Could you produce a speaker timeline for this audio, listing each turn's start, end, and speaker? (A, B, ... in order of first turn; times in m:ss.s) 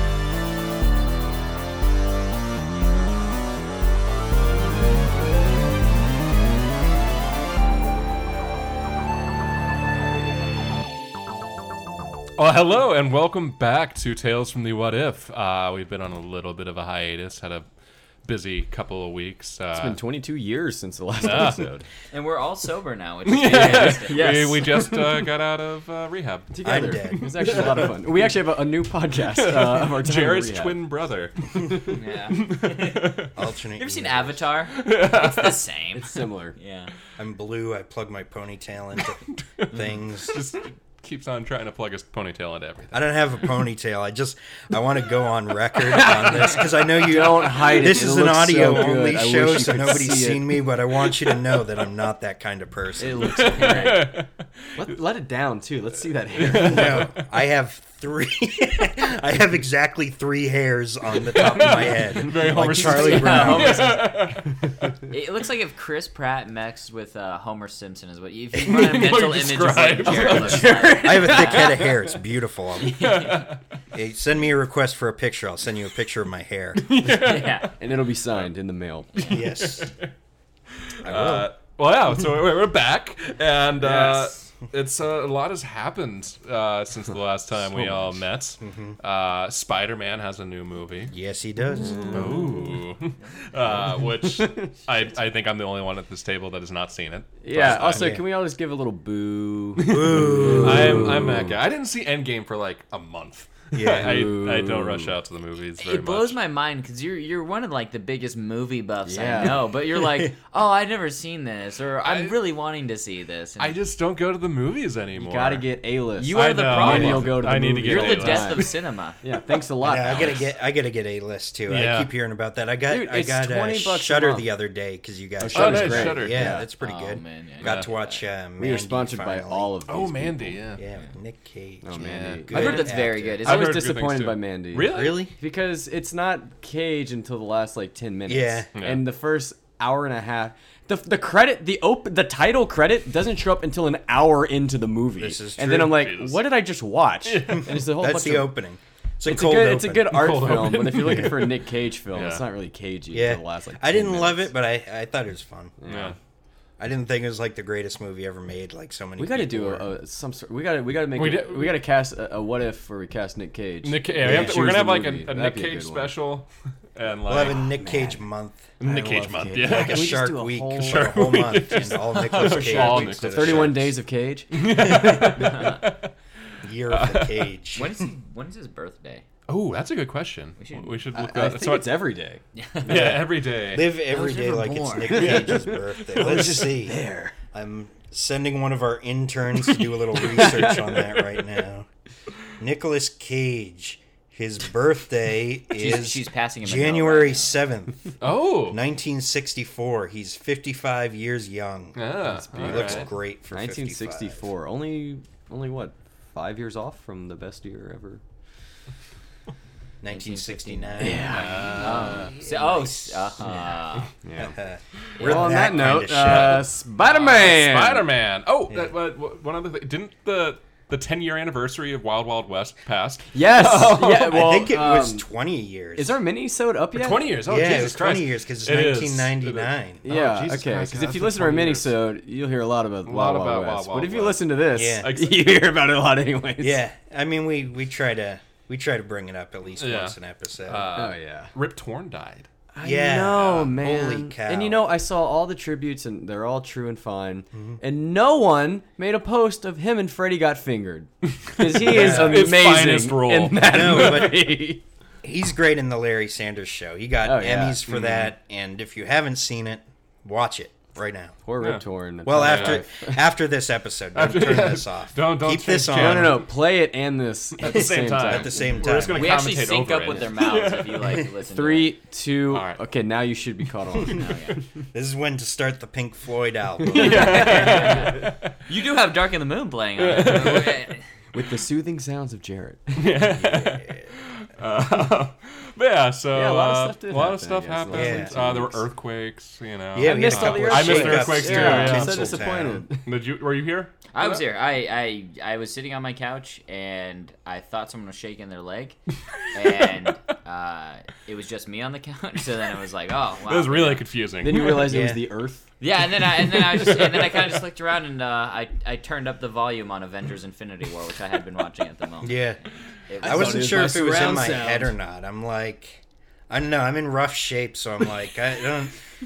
0:12.4-0:17.7 A
0:18.2-0:20.0 A
0:19.7-0:21.9 B
0:21.2-0:21.7 A
0:22.1-0:24.6 C
0:23.3-0:28.0 A
0:23.5-0:25.3 B
0:26.5-0:30.8 B
0:26.6-0:27.8 D
0:29.2-0:33.3 A
0:31.7-0:32.0 B
0:31.9-0:36.9 C
0:33.4-0:34.4 D
0:34.7-0:35.7 A
0:35.9-0:36.6 B
0:37.2-0:40.4 D
0:39.4-0:43.0 A
0:42.9-0:53.6 D
0:45.8-0:50.6 B
0:53.0-0:54.1 B
0:53.2-0:54.9 A
0:53.5-0:54.1 C
0:54.8-0:57.1 B
0:56.4-0:57.2 A
0:56.5-1:03.9 D
1:01.3-1:04.9 A
1:01.4-1:02.0 C
1:02.9-1:04.3 C
1:05.1-1:11.7 C
1:08.6-1:10.7 A
1:10.0-1:12.1 B
1:10.9-1:13.3 D
1:12.9-1:13.6 A
1:13.0-1:13.4 C
1:13.9-1:16.9 D
1:16.8-1:17.7 A
1:17.1-1:17.7 C
1:17.8-1:19.3 B
1:19.2-1:20.1 A
1:19.2-1:19.9 D
1:20.9-1:31.1 A
1:21.0-1:21.5 D
1:23.9-1:24.5 C
1:28.6-1:29.0 D
1:31.1-1:32.5 D
1:31.8-1:32.6 B
1:32.1-1:38.2 A
1:34.2-1:34.7 B
1:37.4-1:41.6 B
1:37.6-1:38.2 D
1:39.8-1:46.4 A
1:39.8-1:41.4 D
1:43.7-1:44.3 D
1:43.9-1:45.2 B
1:45.8-1:53.8 C
1:49.0-1:49.7 B
1:50.0-1:50.3 D
1:52.0-1:52.4 A
1:53.6-1:55.7 A
1:55.2-2:00.5 B
1:56.2-1:59.2 C
1:56.3-1:58.7 A
1:59.8-2:09.8 D
2:01.7-2:02.1 A
2:02.9-2:04.5 B
2:05.4-2:06.7 B
2:05.5-2:06.6 A
2:06.8-2:08.3 C
2:07.6-2:07.9 A
2:08.6-2:10.6 B
2:09.9-2:10.8 A
2:10.8-2:13.4 D
2:11.8-2:28.5 B
2:11.9-2:12.8 A
2:12.5-2:13.8 C
2:13.4-2:15.3 A
2:14.8-2:15.3 D
2:18.3-2:18.7 D
2:18.8-2:19.0 A
2:25.2-2:26.0 D
2:25.7-2:26.4 A
2:27.2-2:27.8 A
2:27.6-2:31.2 D
2:29.2-2:34.5 B
2:30.0-2:31.6 A
2:32.1-2:32.4 A
2:33.1-2:35.7 D
2:35.8-2:36.2 B
2:35.9-2:36.2 A
2:36.8-2:39.9 D
2:39.2-2:46.1 B
2:41.2-2:41.8 A
2:43.8-2:47.7 A
2:44.2-2:44.7 D
2:47.3-2:53.9 D
2:47.8-2:48.2 C
2:48.8-2:50.2 A
2:48.9-2:51.4 B
2:50.8-2:53.9 A
2:52.4-2:55.5 B
2:54.5-2:56.1 A
2:54.9-2:55.6 D
2:55.4-2:55.8 C
2:56.6-2:58.1 D
2:56.9-2:57.5 A
2:57.8-2:59.2 C
2:59.5-3:02.0 A
3:00.6-3:01.0 C
3:01.1-3:03.2 B
3:02.6-3:03.0 C
3:02.8-3:03.9 A
3:02.9-3:11.9 D
3:04.1-3:05.5 C
3:05.1-3:07.4 B
3:10.1-3:11.3 B
3:12.6-3:22.1 D
3:15.7-3:17.6 C
3:18.2-3:18.8 A
3:22.0-3:23.1 A
3:22.2-3:28.2 B
3:22.6-3:24.4 D
3:30.0-3:33.5 D
3:30.1-3:34.1 C
3:31.0-3:32.3 B
3:31.3-3:31.9 A
3:34.2-3:34.6 B
3:34.4-3:36.6 D
3:35.2-3:35.5 C
3:35.2-3:38.1 B
3:35.3-3:44.4 A
3:43.3-3:45.2 B
3:44.2-3:46.2 D
3:46.0-3:47.4 B
3:46.9-3:52.0 A
3:47.4-3:50.0 D
3:50.0-3:56.8 B
3:53.0-3:54.5 A
3:54.7-3:55.1 D
3:55.0-3:55.4 A
3:56.6-4:00.9 D
3:59.8-4:02.5 A
4:00.9-4:01.5 B
4:02.8-4:14.8 B
4:02.8-4:04.8 D
4:07.5-4:07.8 D
4:11.5-4:14.3 A
4:11.8-4:12.5 D
4:13.6-4:14.5 D
4:15.2-4:21.4 D
4:17.2-4:17.8 B
4:17.9-4:18.3 A
4:21.4-4:23.3 B
4:22.2-4:26.4 D
4:22.4-4:22.8 A
4:24.1-4:26.5 A
4:25.9-4:28.7 B
4:27.6-4:31.3 A
4:27.6-4:29.4 D
4:29.1-4:31.9 C
4:31.4-4:34.3 B
4:32.5-4:32.8 A
4:34.0-4:34.6 C
4:34.9-4:37.9 D
4:36.9-4:38.6 A
4:36.9-4:38.2 B
4:37.0-4:41.0 C
4:40.0-4:40.8 A
4:41.3-4:43.4 B
4:43.0-4:54.4 A
4:43.4-4:43.9 D
4:46.3-4:48.8 B
4:47.9-4:48.4 D
4:50.0-4:52.9 D
4:50.0-4:53.1 B
4:54.1-4:59.0 C
4:59.5-5:04.0 C
5:03.4-5:05.0 A
5:04.4-5:05.7 B
5:04.9-5:05.2 D
5:05.8-5:12.5 C
5:06.4-5:07.5 A
5:12.2-5:12.6 D
5:13.1-5:13.9 C
5:13.2-5:19.0 D
5:13.2-5:14.9 B